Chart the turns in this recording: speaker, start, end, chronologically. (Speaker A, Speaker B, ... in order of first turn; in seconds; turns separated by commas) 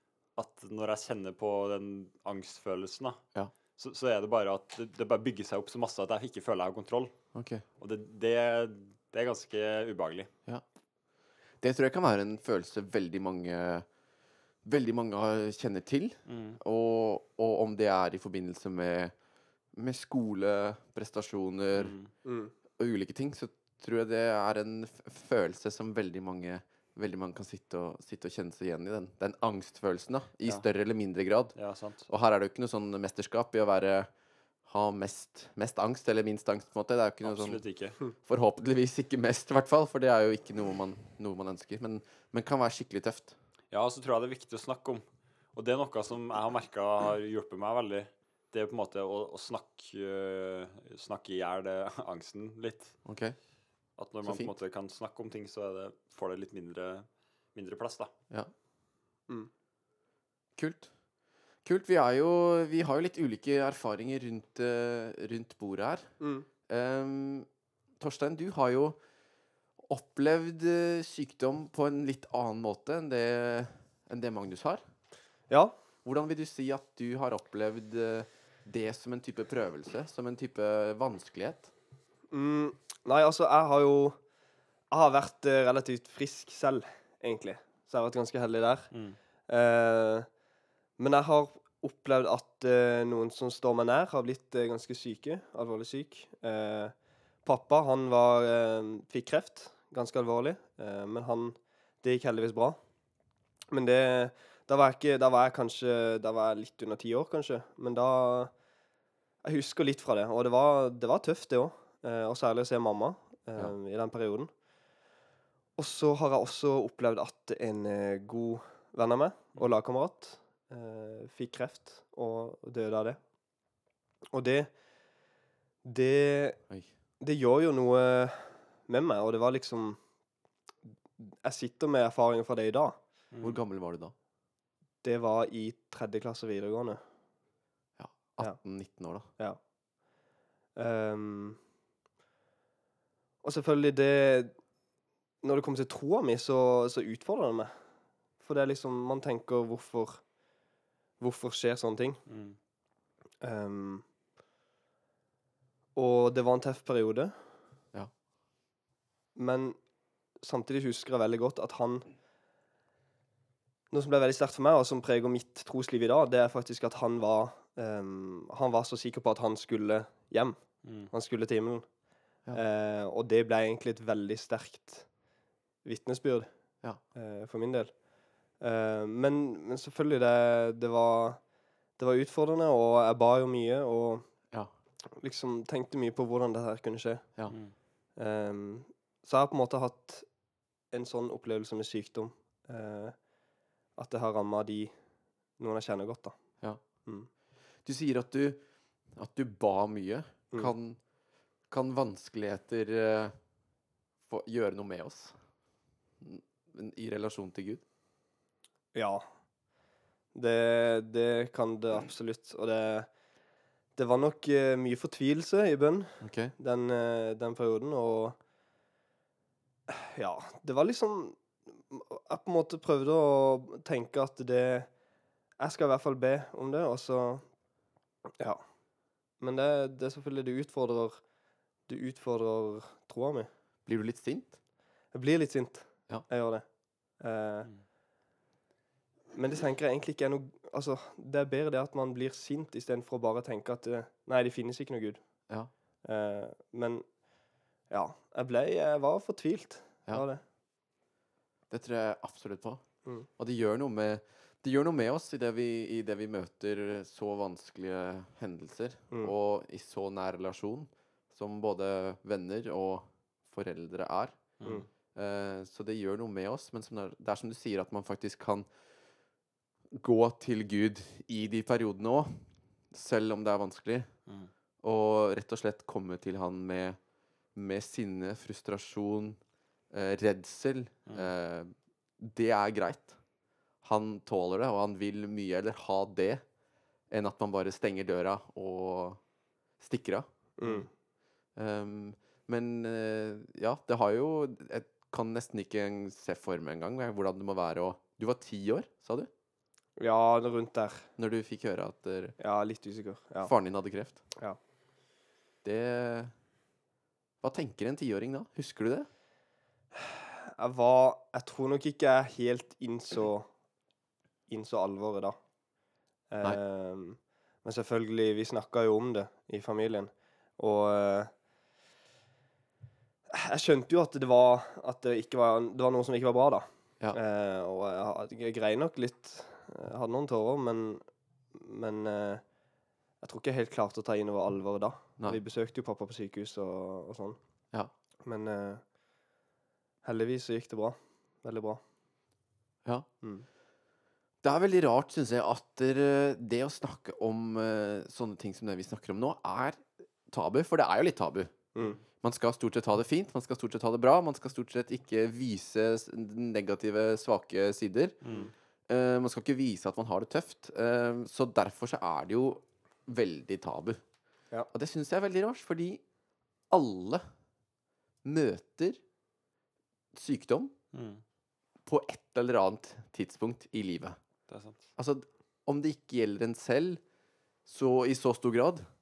Speaker A: 0.3-3.2, Speaker A: 3.8-7.1, Speaker B: 7.3-7.6, Speaker A: 7.8-10.3, Speaker B: 11.6-13.8, Speaker B: 14.6-19.1, Speaker A: 16.3-16.6, Speaker B: 19.7-21.9, Speaker A: 21.7-22.1, Speaker C: 22.2-22.5, Speaker B: 22.8-31.5, Speaker A: 31.6-32.1, Speaker B: 32.1-34.1, Speaker B: 34.6-37.6, Speaker A: 37.2-38.0, Speaker B: 38.2-43.3, Speaker A: 43.7-53.0, Speaker B: 53.0-53.3, Speaker A: 54.0-58.1, Speaker B: 54.2-54.5, Speaker B: 60.5-60.9, Speaker B: 61.6-66.1, Speaker C: 66.2-66.5, Speaker B: 66.7-67.5, Speaker B: 68.0-69.0, Speaker B: 69.8-74.8, Speaker B: 76.0-81.7, Speaker C: 82.3-84.2, Speaker C: 84.9-88.9, Speaker A: 88.9-89.2, Speaker C: 89.5-90.3, Speaker C: 91.0-102.8, Speaker C: 103.7-108.5, Speaker C: 109.4-114.5, Speaker C: 115.8-123.2, Speaker C: 124.3-124.7, Speaker C: 125.8-126.6, Speaker C: 127.2-130.0, Speaker C: 131.2-133.0, Speaker A: 133.3-133.6, Speaker B: 133.4-134.1, Speaker C: 135.0-137.0, Speaker B: 138.0-139.2, Speaker C: 140.8-141.6, Speaker C: 143.4-144.5, Speaker C: 145.4-147.7, Speaker C: 148.4-150.2, Speaker C: 151.2-152.2, Speaker A: 152.3-152.6, Speaker C: 153.4-154.0, Speaker C: 155.9-157.4, Speaker C: 159.3-159.8, Speaker C: 160.4-162.0, Speaker C: 163.9-171.9, Speaker A: 170.8-171.1, Speaker C: 172.5-175.1, Speaker C: 175.8-176.5, Speaker C: 177.1-178.0, Speaker C: 178.6-181.4, Speaker C: 182.0-184.3, Speaker C: 185.2-187.3, Speaker C: 188.2-190.3, Speaker C: 190.9-193.2, Speaker C: 193.9-195.0, Speaker C: 195.6-196.4, Speaker B: 197.8-198.6, Speaker B: 199.2-201.0, Speaker B: 201.7-203.3, Speaker B: 204.3-205.4, Speaker B: 206.2-207.8, Speaker C: 208.9-209.3, Speaker C: 210.3-213.1, Speaker C: 213.9-218.4, Speaker B: 216.2-216.5, Speaker C: 219.9-224.9, Speaker C: 225.6-227.5, Speaker C: 228.4-228.7, Speaker C: 229.4-231.2, Speaker C: 231.8-233.5, Speaker B: 233.8-234.5, Speaker C: 235.1-237.7, Speaker C: 239.3-245.2, Speaker C: 246.0-247.1, Speaker C: 247.9-250.4, Speaker B: 251.7-252.8, Speaker B: 253.4-264.6, Speaker A: 264.6-264.8, Speaker B: 265.1-268.7, Speaker B: 269.9-274.1, Speaker B: 274.8-277.0, Speaker B: 277.5-279.4, Speaker B: 279.9-283.2, Speaker B: 283.8-286.4, Speaker B: 287.1-289.2, Speaker B: 289.8-290.2, Speaker C: 290.6-290.9, Speaker B: 291.6-299.3, Speaker C: 300.0-301.1, Speaker B: 301.2-302.4, Speaker C: 302.4-303.5, Speaker B: 303.4-304.2, Speaker B: 305.6-306.3, Speaker B: 307.4-309.1, Speaker C: 309.9-313.5, Speaker C: 314.5-315.4, Speaker C: 316.3-321.3, Speaker C: 323.3-332.4, Speaker C: 333.2-337.4, Speaker C: 338.2-338.9, Speaker C: 340.0-341.8, Speaker B: 344.4-351.5, Speaker B: 352.2-358.2, Speaker A: 358.2-358.5, Speaker B: 358.9-364.0, Speaker B: 364.7-366.0, Speaker B: 366.7-367.2, Speaker B: 368.2-369.0, Speaker B: 370.1-370.7, Speaker A: 370.9-371.2, Speaker B: 371.9-374.2, Speaker A: 374.5-374.8, Speaker B: 374.9-377.0, Speaker B: 377.6-378.8